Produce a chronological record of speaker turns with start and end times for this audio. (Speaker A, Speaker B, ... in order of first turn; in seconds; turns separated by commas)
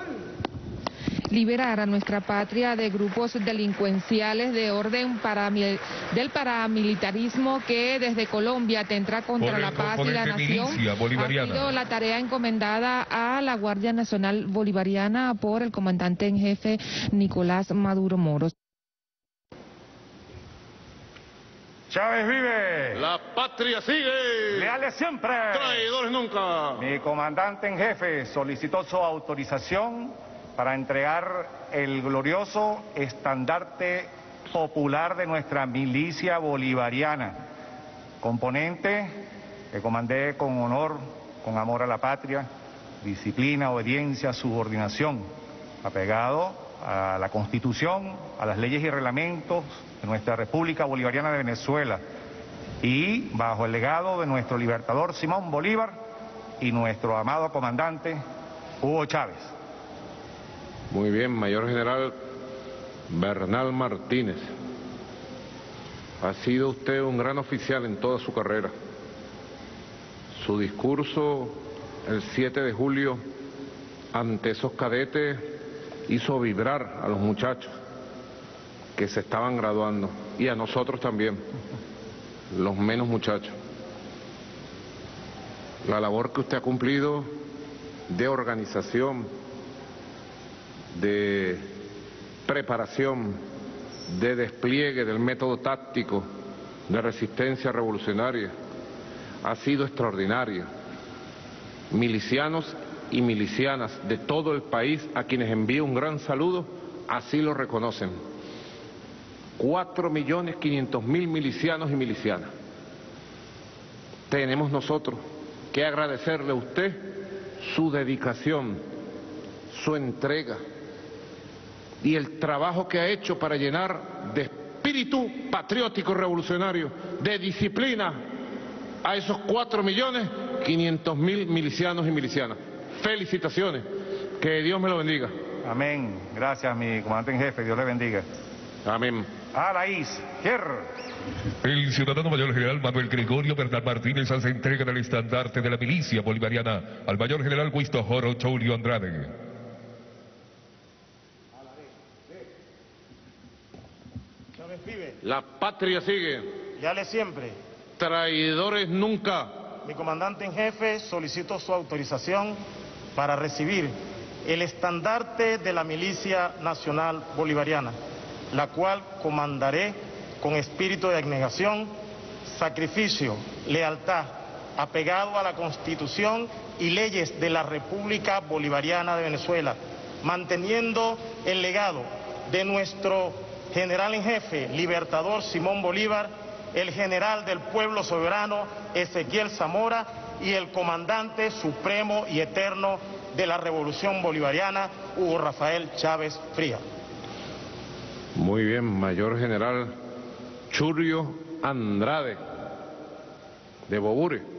Speaker A: 1.3-18.5, Speaker B: 9.4-11.7, Speaker C: 21.9-23.0, Speaker D: 22.9-24.7, Speaker C: 24.5-25.9, Speaker D: 25.5-26.8, Speaker C: 26.8-37.4, Speaker C: 38.2-39.1, Speaker C: 39.7-42.5, Speaker C: 43.0-45.3, Speaker C: 45.8-52.0, Speaker C: 52.8-56.0, Speaker C: 56.6-58.2, Speaker C: 58.8-59.5, Speaker D: 60.9-62.1, Speaker D: 63.1-64.4, Speaker D: 66.2-68.7, Speaker D: 70.3-73.2, Speaker D: 74.1-75.5, Speaker D: 76.1-77.7, Speaker D: 79.0-81.4, Speaker D: 82.5-83.5, Speaker D: 85.8-87.3, Speaker D: 88.1-89.3, Speaker D: 90.9-91.6, Speaker D: 92.5-93.4, Speaker D: 94.1-96.3, Speaker D: 96.9-98.5, Speaker D: 99.4-100.7, Speaker D: 101.9-108.1, Speaker D: 109.6-112.5, Speaker D: 114.3-115.2, Speaker D: 115.7-117.0, Speaker D: 117.6-118.8, Speaker D: 119.7-120.6, Speaker D: 122.0-128.2, Speaker D: 129.0-133.8, Speaker D: 134.4-135.3, Speaker C: 135.6-138.2, Speaker D: 138.8-139.3, Speaker C: 139.5-140.8, Speaker B: 141.6-149.3, Speaker E: 154.6-155.2, Speaker D: 155.2-156.5, Speaker E: 156.8-157.6, Speaker D: 158.0-159.5, Speaker E: 159.8-162.6, Speaker E: 163.1-167.9, Speaker E: 168.5-171.9, Speaker E: 172.4-196.8, Speaker D: 198.3-199.9, Speaker D: 200.7-202.4, Speaker D: 203.9-204.4